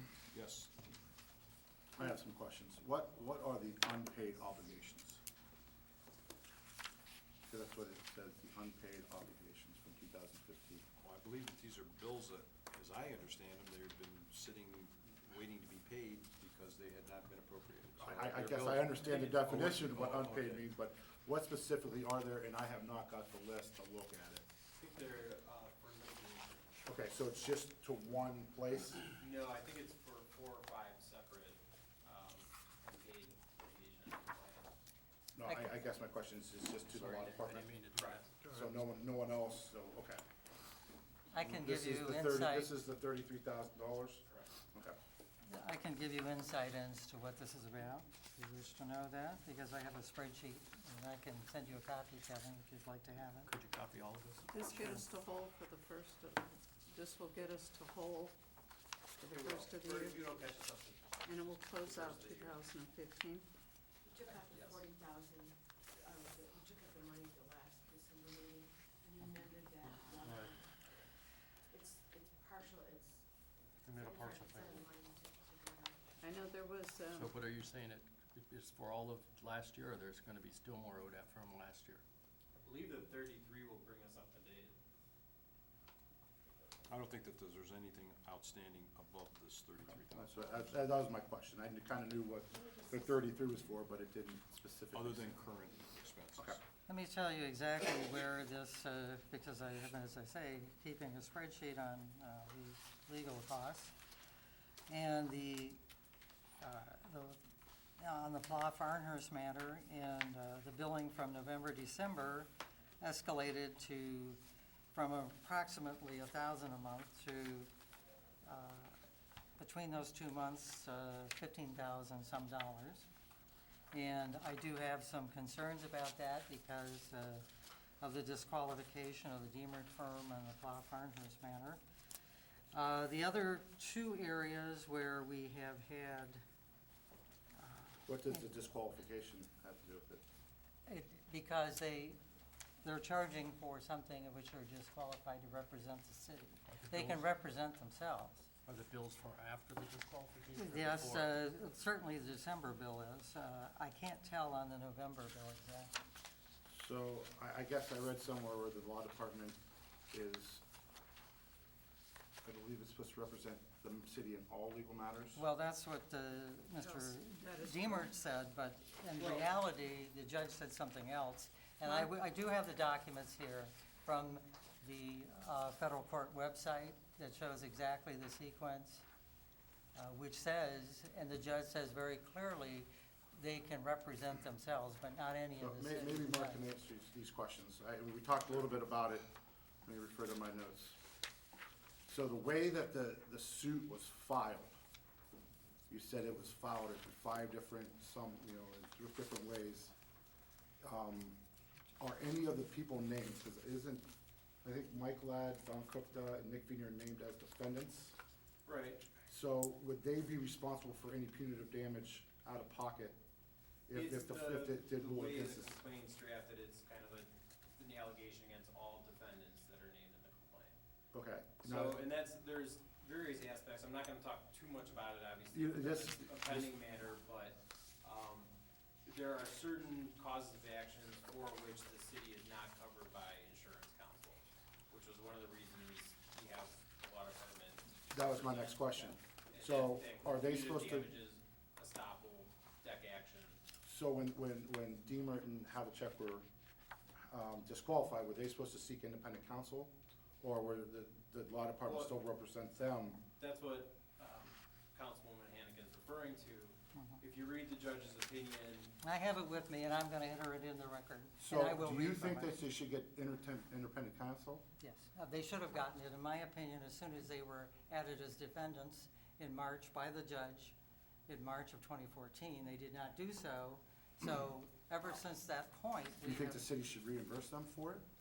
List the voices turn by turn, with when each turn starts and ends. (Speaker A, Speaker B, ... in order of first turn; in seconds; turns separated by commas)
Speaker A: 0.3-0.7, Speaker B: 2.0-5.2, Speaker B: 7.5-10.8, Speaker A: 11.0-19.1, Speaker B: 18.0-24.4, Speaker C: 18.8-20.6, Speaker D: 24.8-26.7, Speaker B: 26.9-29.1, Speaker D: 29.2-34.7, Speaker B: 35.4-37.7, Speaker E: 35.5-35.8, Speaker C: 36.9-38.5, Speaker B: 38.4-40.2, Speaker E: 41.3-42.7, Speaker B: 41.4-45.0, Speaker E: 45.4-53.5, Speaker C: 53.5-54.7, Speaker F: 54.5-58.4, Speaker F: 59.2-60.2, Speaker D: 59.2-61.2, Speaker F: 61.2-63.5, Speaker D: 61.8-62.6, Speaker G: 64.0-70.5, Speaker D: 64.3-64.8, Speaker C: 70.2-70.5, Speaker G: 71.7-73.2, Speaker D: 73.9-74.3, Speaker C: 74.0-74.7, Speaker G: 74.0-76.0, Speaker F: 76.2-77.3, Speaker C: 77.2-82.0, Speaker D: 82.6-84.8, Speaker A: 86.9-90.7, Speaker B: 90.2-95.4, Speaker A: 94.9-96.6, Speaker E: 96.9-103.9, Speaker E: 104.9-105.8, Speaker E: 106.6-107.4, Speaker E: 108.0-112.5, Speaker E: 113.0-114.4, Speaker E: 114.9-117.7, Speaker E: 118.5-119.0, Speaker E: 119.6-123.1, Speaker E: 123.9-127.5, Speaker E: 128.0-131.8, Speaker E: 132.7-136.4, Speaker E: 137.6-138.5, Speaker B: 138.1-140.2, Speaker E: 140.9-142.2, Speaker E: 142.8-148.5, Speaker C: 146.7-147.2, Speaker C: 148.7-151.3, Speaker E: 150.5-155.9, Speaker B: 156.7-159.6, Speaker B: 160.1-160.6, Speaker B: 162.4-165.4, Speaker E: 165.4-179.1, Speaker F: 166.8-168.1, Speaker D: 169.2-169.5, Speaker E: 179.9-186.6, Speaker B: 185.6-189.2, Speaker B: 189.8-191.0, Speaker B: 192.1-194.7, Speaker B: 195.9-199.9, Speaker B: 200.8-201.4, Speaker B: 202.0-204.1, Speaker B: 204.6-208.2, Speaker D: 208.7-209.1, Speaker B: 209.3-213.2, Speaker B: 213.9-215.7, Speaker D: 213.9-220.8, Speaker B: 221.1-222.0, Speaker D: 221.6-228.5, Speaker B: 225.5-226.8, Speaker D: 229.1-243.6, Speaker B: 238.1-241.1, Speaker B: 243.8-246.4, Speaker B: 247.3-253.2, Speaker D: 251.8-252.1, Speaker D: 253.4-258.9, Speaker E: 256.9-257.2, Speaker E: 259.0-262.6, Speaker B: 261.4-264.6, Speaker E: 264.8-270.8, Speaker E: 271.3-276.6, Speaker B: 276.2-278.0